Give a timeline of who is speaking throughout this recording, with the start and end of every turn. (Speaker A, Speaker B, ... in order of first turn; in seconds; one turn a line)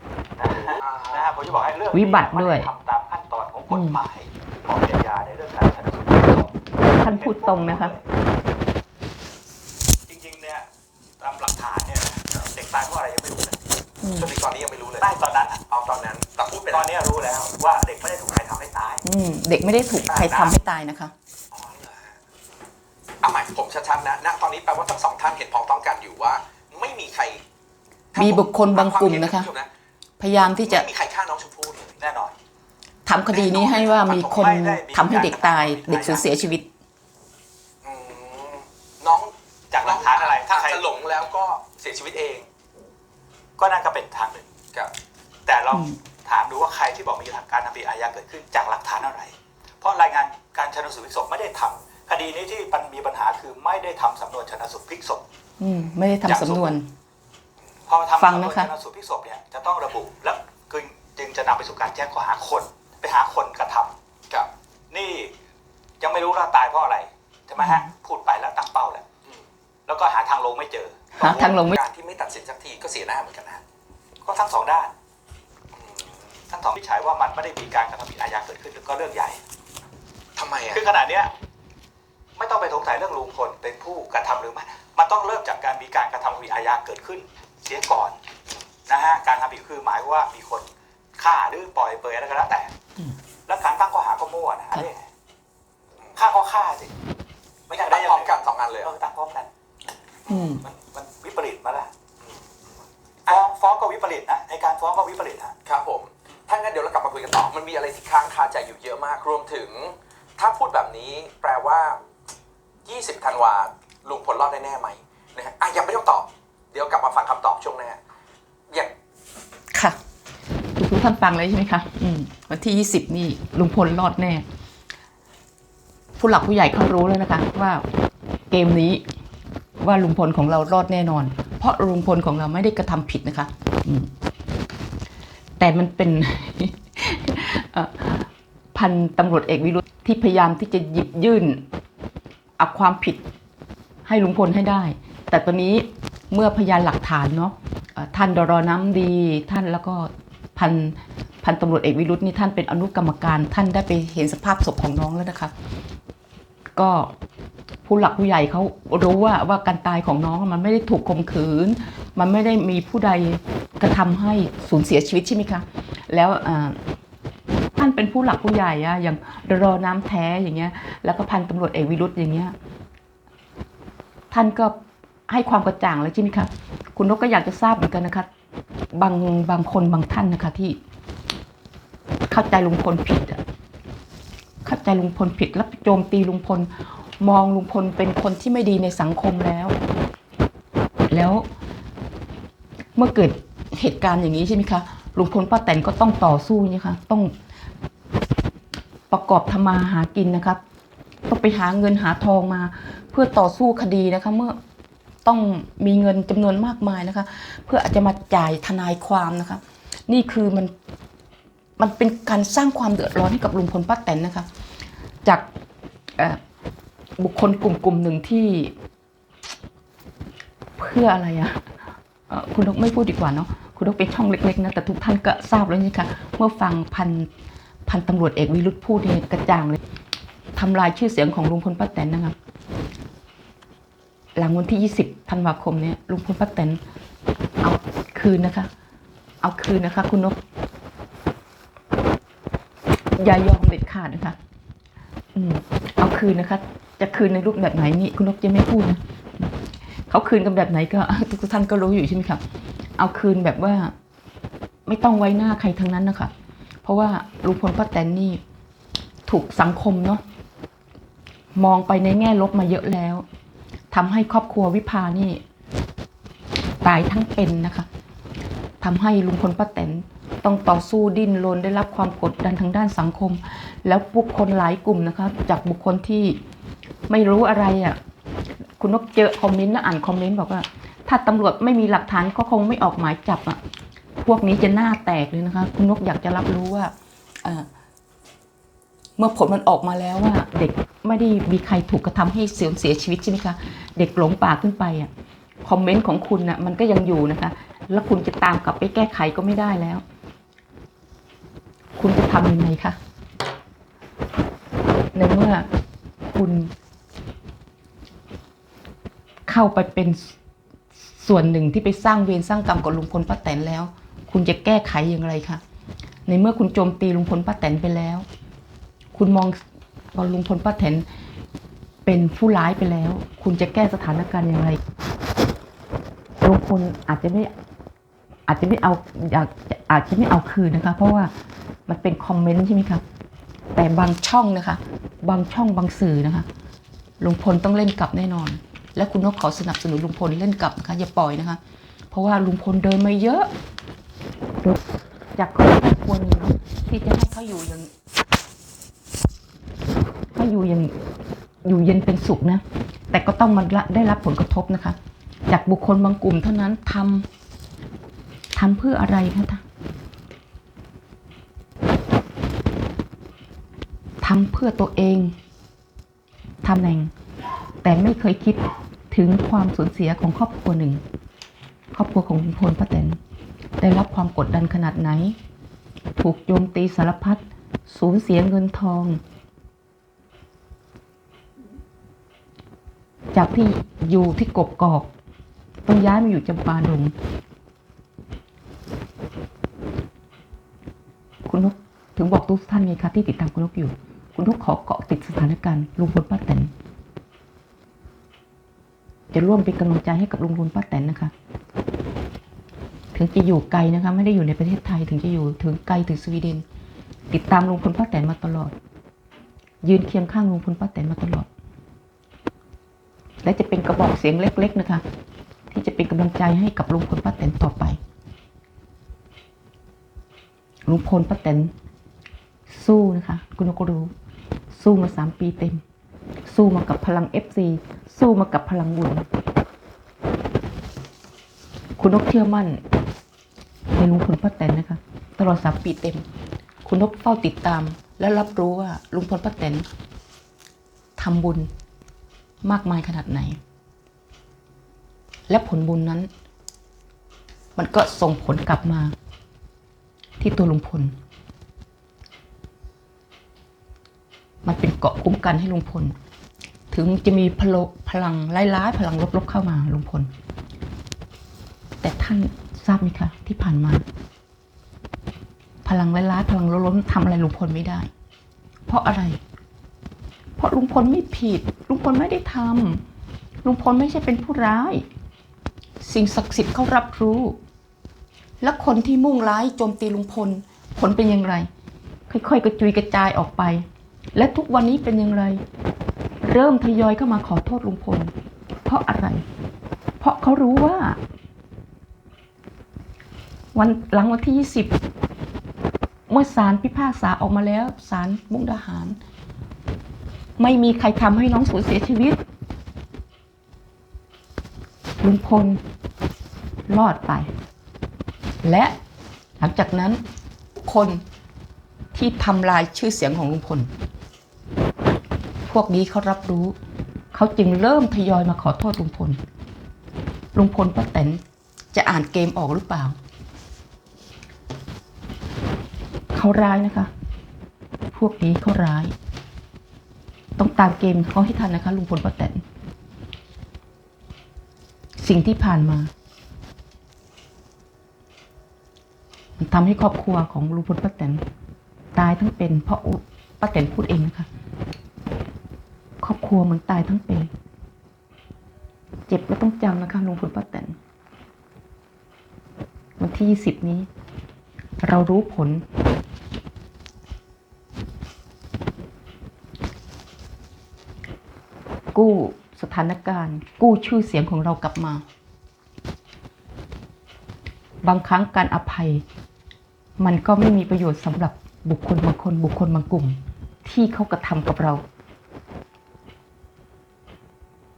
Speaker A: 0.4-8.1
Speaker B: 0.8-1.3
Speaker C: 1.9-2.7
Speaker C: 3.7-4.0
Speaker C: 6.8-7.9
Speaker A: 10.1-10.7
Speaker A: 11.2-13.6
Speaker C: 14.0-14.3
Speaker B: 14.2-15.1
Speaker A: 15.0-15.7
Speaker B: 15.7-16.9
Speaker A: 16.7-19.0
Speaker C: 19.0-21.1
Speaker B: 20.1-20.6
Speaker B: 21.5-22.2
Speaker B: 23.2-27.4
Speaker B: 28.1-29.7
Speaker C: 28.2-29.5
Speaker C: 30.2-30.9
Speaker B: 30.3-32.0
Speaker A: 32.0-32.3
Speaker C: 33.1-36.7
Speaker B: 33.3-34.6
Speaker A: 34.1-36.3
Speaker B: 37.8-42.5
Speaker A: 39.7-40.8
Speaker A: 43.6-44.5
Speaker A: 45.5-55.2
Speaker C: 45.7-46.0
Speaker C: 55.6-56.9
Speaker A: 56.3-56.8
Speaker A: 57.9-63.9
Speaker C: 58.2-58.7
Speaker A: 64.9-65.3
Speaker A: 66.0-69.1
Speaker C: 67.6-67.9
Speaker A: 69.9-71.6
Speaker C: 71.2-71.8
Speaker B: 71.3-73.6
Speaker A: 74.2-74.9
Speaker B: 75.7-76.3
Speaker A: 76.5-79.4
Speaker B: 80.4-80.9
Speaker A: 80.7-81.3
Speaker A: 82.4-88.2
Speaker A: 88.9-90.7
Speaker A: 91.2-92.7
Speaker A: 93.5-95.0
Speaker A: 96.2-96.9
Speaker A: 97.7-99.5
Speaker B: 97.7-98.9
Speaker C: 100.3-100.6
Speaker A: 100.6-101.9
Speaker A: 103.3-105.5
Speaker B: 105.7-112.0
Speaker B: 112.8-118.0
Speaker C: 119.7-120.0
Speaker C: 120.8-124.5
Speaker C: 126.2-127.8
Speaker C: 128.5-129.0
Speaker C: 129.8-134.1
Speaker C: 135.6-141.7
Speaker C: 142.6-143.2
Speaker C: 144.1-155.5
Speaker C: 156.8-157.1
Speaker C: 157.8-166.8
Speaker C: 167.8-172.6
Speaker C: 174.3-174.8
Speaker C: 175.3-178.3
Speaker C: 178.9-180.8
Speaker C: 182.3-183.4
Speaker C: 184.6-189.8
Speaker C: 191.1-191.5
Speaker C: 193.0-197.3
Speaker C: 199.1-200.6
Speaker C: 201.3-204.6
Speaker C: 205.2-210.7
Speaker C: 211.8-214.5
Speaker C: 217.2-218.7
Speaker C: 220.8-221.7
Speaker C: 222.3-227.3
Speaker C: 227.9-229.8
Speaker C: 230.6-232.4
Speaker C: 234.4-236.8
Speaker C: 237.6-238.7
Speaker C: 239.4-240.4
Speaker C: 243.2-244.4
Speaker C: 245.4-249.5
Speaker C: 250.1-252.4
Speaker C: 253.0-253.9
Speaker C: 254.9-256.3
Speaker C: 256.8-258.4
Speaker C: 259.3-260.2
Speaker C: 261.6-263.2
Speaker C: 263.9-265.4
Speaker C: 266.8-267.9
Speaker C: 268.8-276.4
Speaker C: 277.1-278.0
Speaker C: 278.8-283.6
Speaker C: 284.2-286.9
Speaker C: 289.2-295.1
Speaker C: 295.6-300.0
Speaker C: 302.0-303.0
Speaker C: 305.1-305.7
Speaker C: 306.3-306.7
Speaker C: 309.5-310.4
Speaker C: 311.1-315.6
Speaker C: 316.3-318.2
Speaker C: 319.1-319.6
Speaker C: 320.1-321.1
Speaker C: 322.1-324.8
Speaker C: 326.4-327.5
Speaker C: 328.5-331.3
Speaker C: 331.9-333.0
Speaker C: 333.8-336.5
Speaker C: 337.2-341.6
Speaker C: 342.1-343.5
Speaker C: 345.4-347.9
Speaker C: 350.4-350.9
Speaker C: 351.6-355.0
Speaker C: 355.5-357.3
Speaker C: 358.6-359.6
Speaker C: 364.2-365.4
Speaker C: 366.6-367.1
Speaker C: 367.8-371.0
Speaker C: 371.9-373.2
Speaker C: 373.8-375.4
Speaker C: 376.2-379.2
Speaker C: 383.3-385.1
Speaker C: 385.9-387.1
Speaker C: 391.5-396.7
Speaker C: 399.3-401.3
Speaker C: 403.1-406.6
Speaker C: 407.3-408.7
Speaker C: 409.8-411.5
Speaker C: 413.4-415.0
Speaker C: 415.7-418.0
Speaker C: 420.9-421.7
Speaker C: 422.7-424.1
Speaker C: 424.7-425.8
Speaker C: 426.5-429.3
Speaker C: 432.0-432.8
Speaker C: 433.9-436.2
Speaker C: 436.8-439.9
Speaker C: 441.2-441.7
Speaker C: 442.6-443.6
Speaker C: 445.5-446.3
Speaker C: 447.8-449.1
Speaker C: 450.4-451.2
Speaker C: 454.6-456.2
Speaker C: 456.9-460.3
Speaker C: 462.0-464.1
Speaker C: 465.9-468.1
Speaker C: 468.9-469.4
Speaker C: 470.6-473.0
Speaker C: 473.6-475.1
Speaker C: 476.0-477.6
Speaker C: 478.6-481.7
Speaker C: 482.3-485.6
Speaker C: 486.4-488.3
Speaker C: 488.9-489.4
Speaker C: 490.2-491.2
Speaker C: 493.7-494.9
Speaker C: 496.3-499.2
Speaker C: 500.6-502.4
Speaker C: 505.2-505.8
Speaker C: 506.9-507.5
Speaker C: 508.6-508.9
Speaker C: 509.6-510.2
Speaker C: 510.8-511.2
Speaker C: 512.1-513.9
Speaker C: 515.7-516.8
Speaker C: 517.3-519.4
Speaker C: 520.5-521.4
Speaker C: 521.9-523.2
Speaker C: 526.3-527.1
Speaker C: 528.1-529.1
Speaker C: 530.6-532.6
Speaker C: 535.2-536.1
Speaker C: 539.6-541.4
Speaker C: 542.1-544.5
Speaker C: 546.2-547.5
Speaker C: 549.3-551.0
Speaker C: 553.2-554.1
Speaker C: 555.0-555.8
Speaker C: 562.1-565.2
Speaker C: 568.0-569.2
Speaker C: 570.2-575.0